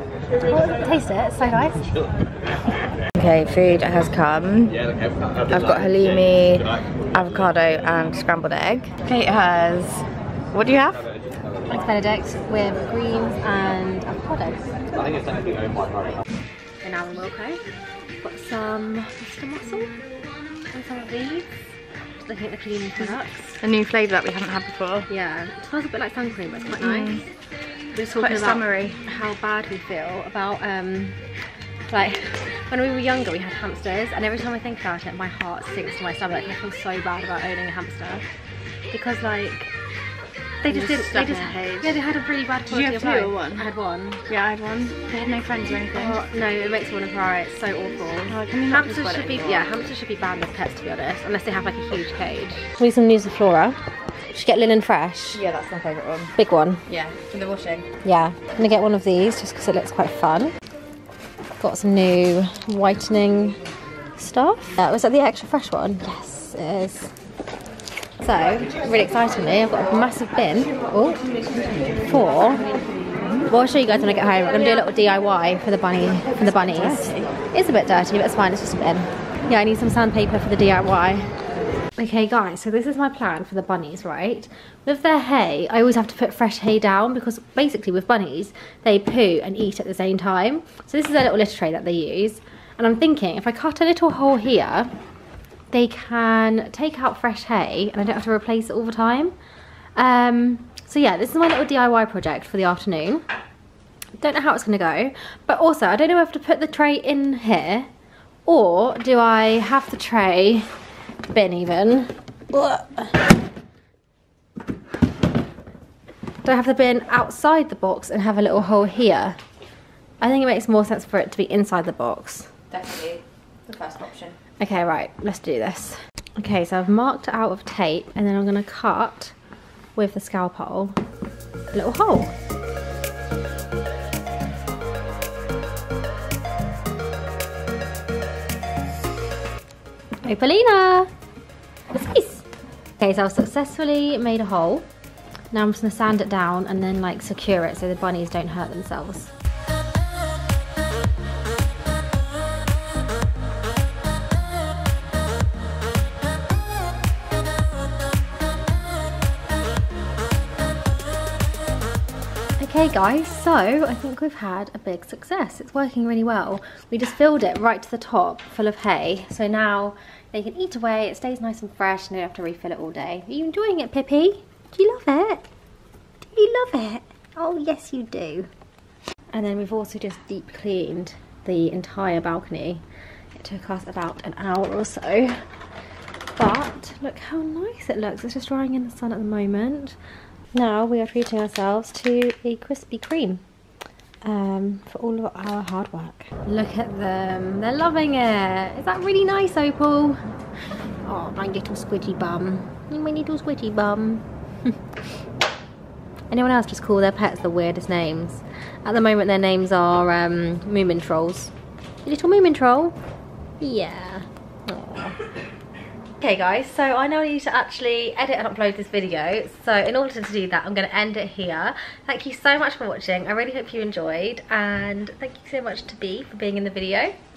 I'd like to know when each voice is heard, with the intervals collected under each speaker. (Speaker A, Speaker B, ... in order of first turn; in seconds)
Speaker A: 0.5-1.9, 11.7-14.7, 16.8-17.6, 18.2-20.0, 20.7-23.6, 25.1-27.2, 27.9-31.2, 31.9-38.2, 38.9-39.7, 40.6-44.2, 46.0-53.8, 54.3-55.4, 56.4-56.8, 58.0-60.5, 61.6-63.6, 64.2-67.1, 68.2-71.2, 72.0-72.6, 73.5-81.4, 82.0-94.9, 95.7-99.3, 100.0-103.2, 104.2-107.9, 108.5-110.7, 111.3-113.1, 116.4-119.4, 120.2-122.5, 124.6-129.3, 129.9-131.0, 131.7-132.3, 140.2-141.1, 141.9-142.5, 143.0-144.9, 145.5-149.3, 162.6-175.4, 176.3-178.5, 179.3-182.8, 183.4-185.5, 186.3-190.0, 190.5-193.4, 194.2-200.2, 201.0-204.8, 206.3-211.5, 212.0-213.0, 213.6-215.2, 216.2-227.1
Speaker B: 3.1-4.8, 5.5-11.1, 23.0-25.1, 26.8-27.3, 28.2-29.0, 40.7-42.0, 42.7-43.7, 44.3-46.2, 48.3-49.7, 55.3-56.3, 56.9-57.9, 73.2-73.5, 76.2-77.3, 122.7-124.4